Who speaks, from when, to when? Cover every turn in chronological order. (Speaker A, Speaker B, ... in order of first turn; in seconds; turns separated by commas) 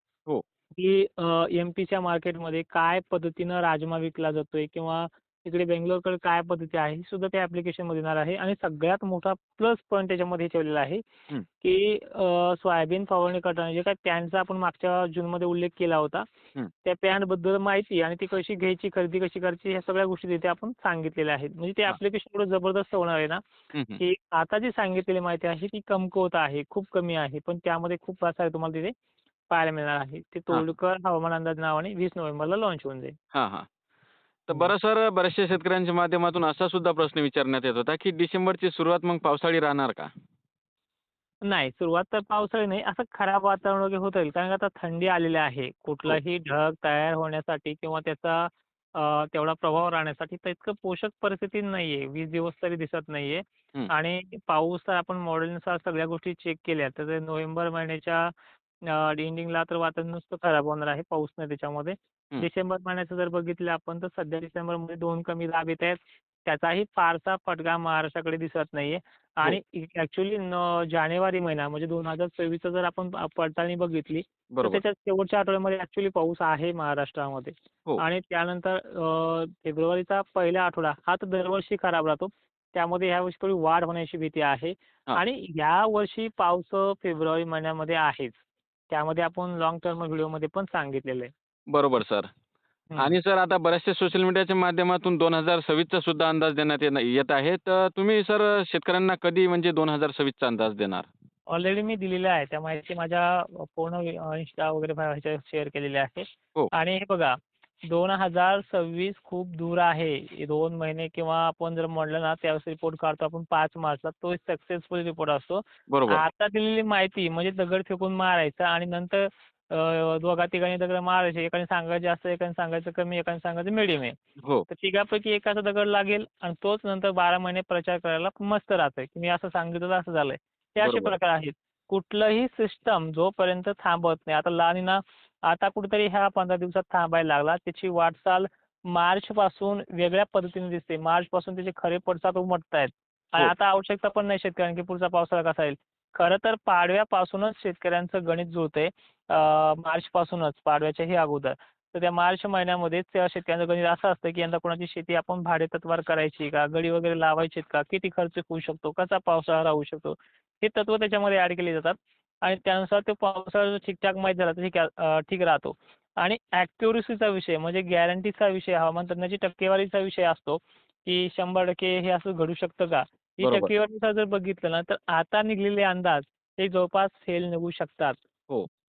Speaker A: 0.7-11.0, Speaker A: 11.6-16.3, Speaker A: 16.8-23.4, Speaker B: 23.7-24.0, Speaker A: 24.0-28.9, Speaker A: 29.5-33.1, Speaker B: 33.3-33.7, Speaker B: 34.5-40.1, Speaker A: 41.4-58.3, Speaker A: 58.9-91.3, Speaker B: 74.5-74.8, Speaker B: 91.7-92.3, Speaker A: 92.9-93.2, Speaker B: 93.0-101.1, Speaker A: 101.5-107.4, Speaker A: 107.9-124.2, Speaker B: 115.9-116.2, Speaker A: 124.7-178.2, Speaker B: 130.8-131.2, Speaker B: 173.4-173.7